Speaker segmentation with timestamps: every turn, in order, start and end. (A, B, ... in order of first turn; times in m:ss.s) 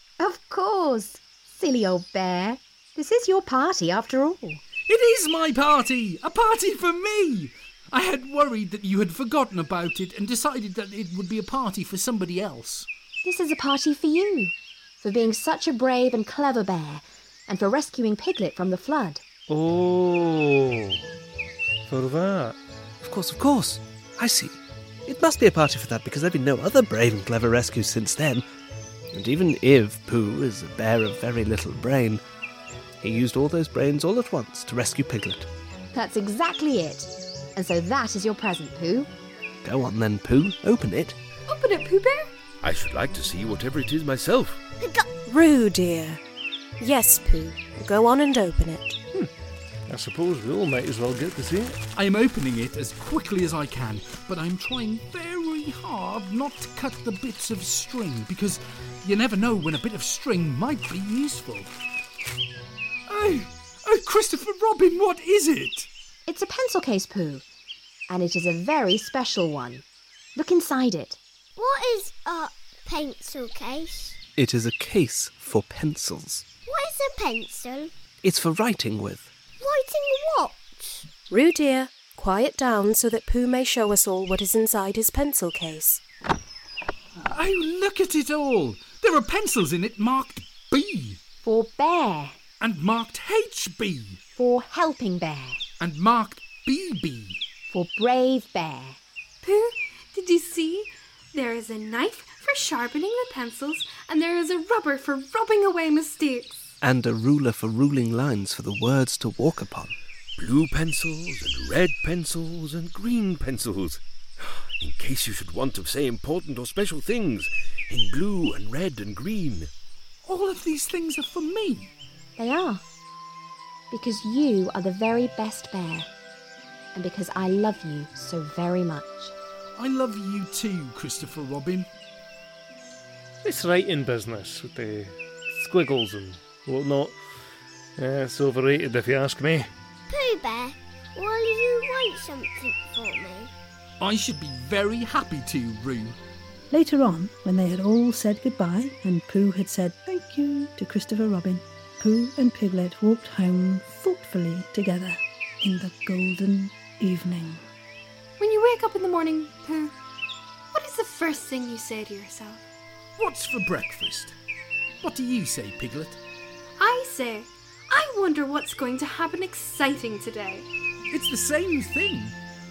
0:00.2-0:04.6 A
0:04.8-0:12.9 B
0:13.2-0:19.2 A
0:19.5-0:21.0 C
0:21.9-0:22.6 C
0:23.0-0:28.4 D
0:29.1-0:32.2 D
0:33.0-0:35.5 D
0:35.9-0:39.1 A
0:39.6-0:41.2 D
0:41.5-0:42.3 E
0:42.6-0:44.6 F
0:44.8-0:45.2 G
0:45.2-0:46.2 H
0:46.8-0:49.0 H
0:49.9-0:51.8 C
0:51.9-1:01.7 B
1:03.1-1:05.9 B
1:06.3-1:07.4 A
1:08.1-1:09.8 A
1:10.4-1:11.2 A
1:11.6-1:14.2 G
1:14.4-1:16.4 D
1:16.6-1:17.9 G
1:18.2-1:19.3 D
1:19.6-1:21.1 G
1:21.3-1:26.0 H
1:27.2-1:31.2 B
1:31.4-1:32.4 A
1:32.6-1:34.2 B
1:34.4-1:35.6 A
1:35.8-1:37.4 B
1:37.7-1:39.0 A
1:39.4-1:46.5 E
1:46.8-1:49.9 D
1:50.4-1:54.0 F
1:54.8-1:59.7 F
2:00.2-2:01.9 B
2:02.4-2:02.8 A
2:03.9-2:06.1 A
2:06.9-2:09.3 A
2:09.8-2:11.9 B
2:13.4-2:17.2 C
2:18.0-2:19.7 C
2:20.1-2:23.5 G
2:24.0-2:26.2 B
2:26.7-2:37.6 I
2:38.4-2:39.9 E
2:40.7-2:42.6 E
2:43.2-2:44.4 B
2:45.0-2:46.2 B
2:46.8-2:50.6 E
2:51.1-2:52.3 B